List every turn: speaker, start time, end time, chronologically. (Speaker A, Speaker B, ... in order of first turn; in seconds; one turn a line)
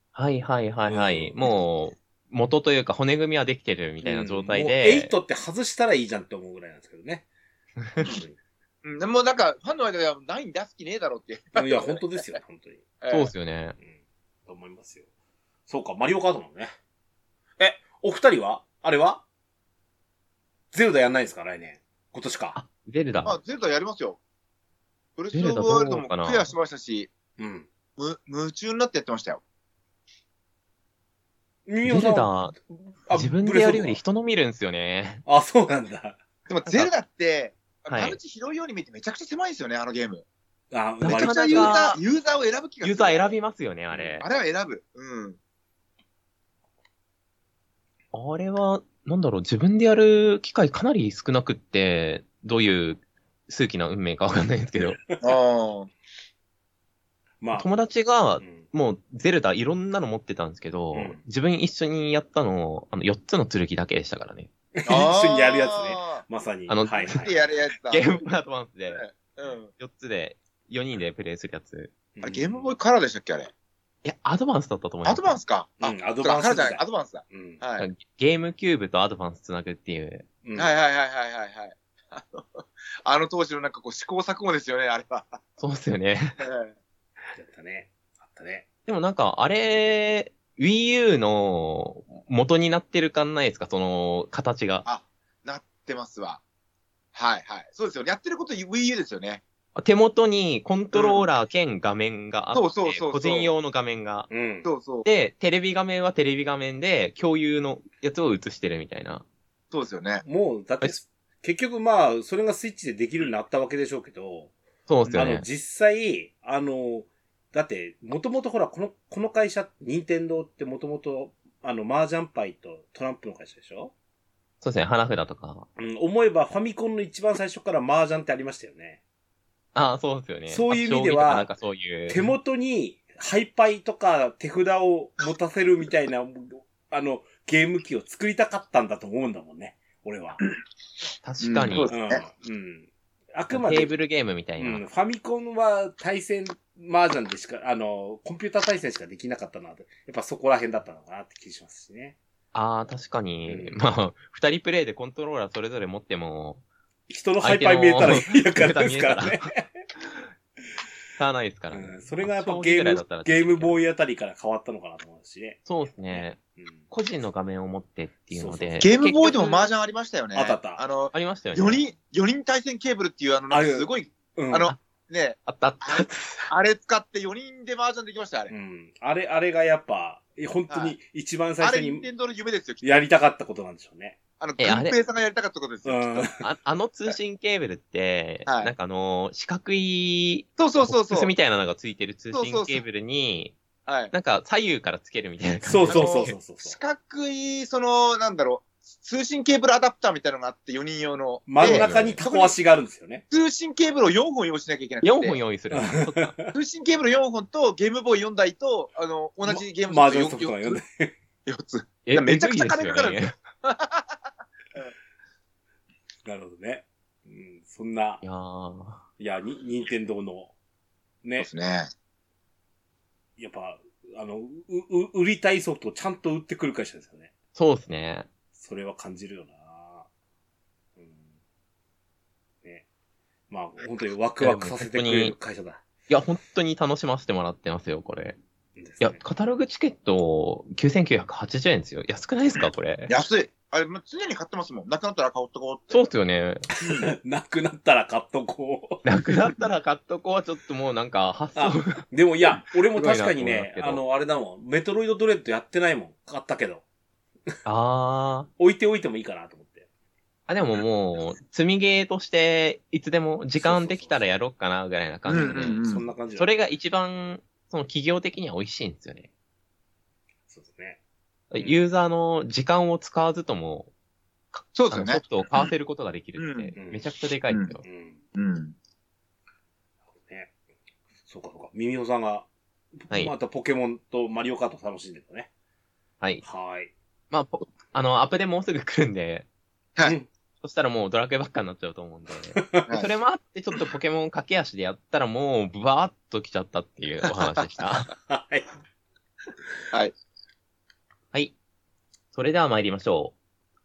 Speaker A: 0.1-5.1
Speaker B: 0.9-1.4
Speaker B: 4.0-7.2
Speaker B: 8.0-8.4
Speaker C: 8.8-12.4
Speaker B: 11.5-12.8
Speaker C: 13.0-13.3
Speaker A: 13.1-13.8
Speaker B: 14.4-15.0
Speaker B: 15.7-16.7
Speaker B: 17.6-19.2
Speaker B: 20.7-22.6
Speaker A: 22.6-23.4
Speaker C: 23.2-24.2
Speaker C: 25.2-27.1
Speaker A: 25.3-26.5
Speaker B: 27.4-27.7
Speaker C: 28.0-29.4
Speaker B: 31.7-34.0
Speaker A: 31.8-32.5
Speaker A: 33.1-35.2
Speaker B: 35.2-36.2
Speaker C: 36.5-40.2
Speaker A: 37.9-38.2
Speaker B: 40.7-41.8
Speaker A: 41.0-42.0
Speaker C: 41.0-43.4
Speaker A: 42.8-44.3
Speaker B: 43.9-44.2
Speaker C: 44.2-45.4
Speaker A: 48.1-55.0
Speaker C: 55.2-55.9
Speaker B: 57.4-57.7
Speaker A: 57.5-64.5
Speaker B: 60.9-61.2
Speaker B: 64.8-67.3
Speaker C: 64.9-66.2
Speaker A: 66.7-67.3
Speaker C: 67.1-68.1
Speaker A: 67.9-69.0
Speaker C: 68.9-69.7
Speaker A: 69.8-71.9
Speaker B: 72.2-72.7
Speaker C: 72.2-73.5
Speaker A: 74.0-75.4
Speaker C: 75.0-77.9
Speaker B: 75.8-77.6
Speaker A: 77.8-80.2
Speaker B: 80.4-80.8
Speaker C: 80.5-85.4
Speaker A: 85.6-86.5
Speaker C: 86.4-86.7
Speaker B: 87.3-88.7
Speaker A: 88.8-94.8
Speaker C: 94.8-96.4
Speaker C: 97.1-99.4
Speaker A: 99.7-104.3
Speaker C: 100.9-101.2
Speaker C: 102.5-103.5
Speaker B: 104.3-104.7
Speaker C: 104.6-105.1
Speaker A: 105.0-109.2
Speaker C: 109.7-110.2
Speaker B: 110.2-114.5
Speaker A: 114.9-115.4
Speaker B: 115.1-123.9
Speaker A: 124.6-125.7
Speaker B: 125.8-129.0
Speaker A: 129.7-132.3
Speaker B: 130.5-131.5
Speaker B: 132.1-140.4
Speaker A: 141.2-141.9
Speaker C: 141.4-142.2
Speaker B: 141.9-143.9
Speaker A: 143.5-144.8
Speaker B: 144.6-152.2
Speaker A: 152.5-156.6
Speaker B: 153.4-153.8
Speaker B: 157.1-159.7
Speaker A: 157.4-159.4
Speaker A: 161.2-163.8
Speaker B: 161.7-166.8
Speaker A: 165.7-166.4
Speaker A: 166.9-169.5
Speaker B: 168.3-169.6
Speaker C: 168.8-178.5
Speaker B: 170.3-170.8
Speaker A: 171.1-171.8
Speaker B: 173.5-174.7
Speaker A: 175.4-176.5
Speaker B: 178.5-182.1
Speaker C: 180.7-180.9
Speaker C: 181.6-183.0
Speaker B: 182.8-184.2
Speaker C: 184.4-186.3
Speaker A: 184.6-185.0
Speaker B: 185.8-186.4
Speaker A: 186.4-193.6
Speaker C: 188.4-188.7
Speaker C: 190.6-191.3
Speaker C: 192.3-192.8
Speaker C: 193.8-194.1
Speaker A: 194.1-196.3
Speaker B: 195.6-196.8
Speaker C: 195.9-202.6
Speaker B: 201.5-203.2
Speaker A: 201.6-202.2
Speaker C: 203.3-205.4
Speaker A: 205.0-206.3
Speaker B: 205.7-206.5
Speaker C: 206.5-210.8
Speaker B: 209.4-211.1
Speaker C: 211.4-214.2
Speaker A: 212.1-213.3
Speaker B: 216.2-218.2
Speaker A: 218.2-219.0
Speaker B: 219.2-220.5
Speaker B: 221.2-221.5
Speaker C: 221.4-221.9
Speaker B: 223.4-227.3
Speaker A: 227.5-228.3
Speaker B: 228.6-230.1
Speaker B: 231.0-231.3
Speaker B: 233.5-235.8
Speaker A: 234.4-235.3
Speaker A: 236.1-238.4
Speaker B: 238.8-239.2
Speaker A: 239.0-243.1
Speaker C: 243.1-246.1
Speaker A: 245.9-246.7
Speaker B: 246.8-249.0
Speaker A: 249.0-252.0
Speaker B: 251.6-256.8
Speaker A: 252.9-254.0
Speaker A: 257.6-258.5
Speaker B: 258.6-259.9
Speaker A: 260.5-265.8
Speaker B: 263.6-264.2
Speaker C: 265.3-266.0
Speaker B: 265.8-266.5
Speaker A: 266.4-269.3
Speaker B: 270.5-271.0
Speaker A: 271.5-273.9
Speaker A: 274.5-277.8
Speaker C: 274.7-275.7
Speaker C: 276.4-276.7
Speaker B: 276.8-277.0
Speaker C: 277.5-277.7
Speaker B: 277.8-278.2
Speaker C: 278.3-278.8
Speaker B: 280.2-280.5
Speaker B: 281.3-285.5
Speaker B: 286.4-286.9
Speaker A: 287.3-289.4
Speaker A: 290.6-298.1
Speaker B: 292.5-292.9
Speaker C: 292.9-293.1
Speaker B: 298.2-298.7
Speaker A: 302.3-303.3